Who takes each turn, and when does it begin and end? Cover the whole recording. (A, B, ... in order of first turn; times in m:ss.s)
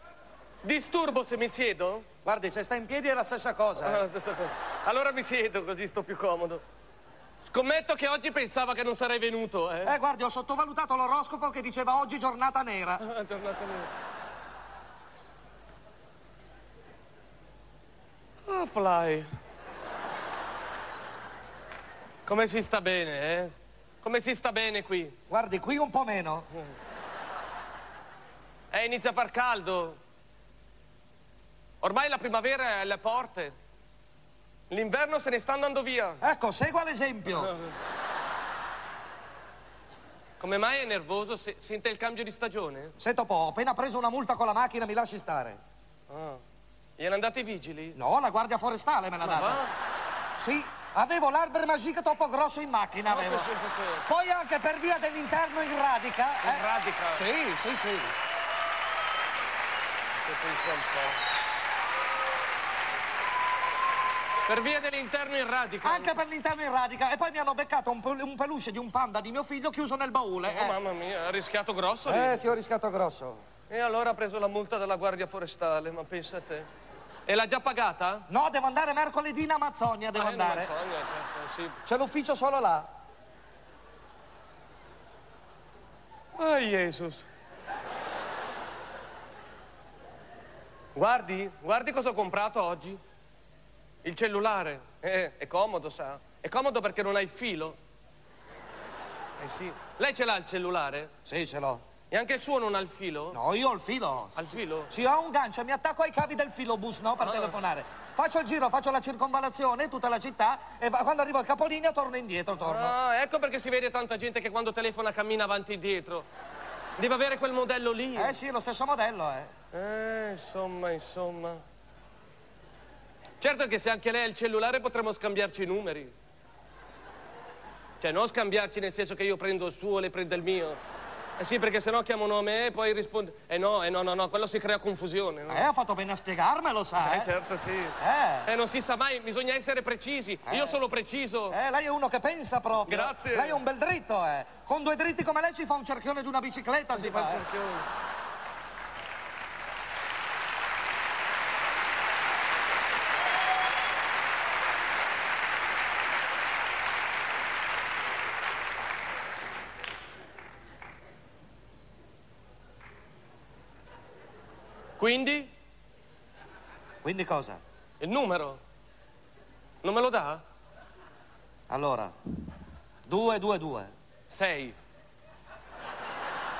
0:00.6-0:02.1 A
0:02.2-0:04.0 B
0:03.8-0:06.6 A
0:07.4-0:10.0 A
0:09.8-0:13.0 B
0:13.0-0:13.9 A
0:18.5-0:19.3 A
0:22.2-0:25.1 A
0:25.3-0:26.5 B
0:28.7-0:30.0 A
0:31.8-0:33.6 A
0:34.7-0:36.2 A
0:36.2-0:37.5 B
0:40.4-0:42.9 A
0:43.0-0:45.6 B
0:46.1-0:46.4 A
0:47.0-0:48.0 A
0:48.0-0:49.6 B
0:49.2-0:49.7 A
0:50.4-0:53.5 B
0:53.0-0:54.0 A
0:54.0-0:58.1 B
0:56.4-0:57.3 A
1:00.2-1:01.2 A
1:04.5-1:06.2 A
1:05.8-1:10.8 B
1:10.5-1:12.4 A
1:12.1-1:13.4 B
1:13.7-1:16.7 A
1:17.3-1:18.3 A
1:18.3-1:20.7 B
1:20.2-1:21.8 A
1:21.9-1:22.9 B
1:26.4-1:27.3 A
1:31.0-1:33.0 A
1:34.0-1:37.8 A
1:39.4-1:41.1 A
1:41.2-1:41.8 B
1:42.1-1:43.4 A
1:43.3-1:53.0 B
1:44.4-1:44.9 A
1:47.2-1:47.6 A
1:52.6-1:56.3 A
1:57.0-1:58.4 A
1:58.2-1:59.5 B
1:59.7-2:01.6 A
2:03.4-2:06.1 A
2:08.0-2:10.8 A
2:11.4-2:15.7 A
2:15.5-2:17.3 B
2:17.0-2:21.6 A
2:18.0-2:18.5 B
2:20.5-2:20.8 B
2:21.5-2:27.4 B
2:22.9-2:23.6 A
2:26.9-2:27.9 A
2:45.0-2:45.5 A
2:47.0-2:47.6 B
2:48.0-2:48.6 A
2:49.8-2:50.4 A
2:51.7-2:52.1 B
2:53.1-2:53.9 B
2:54.3-2:54.8 A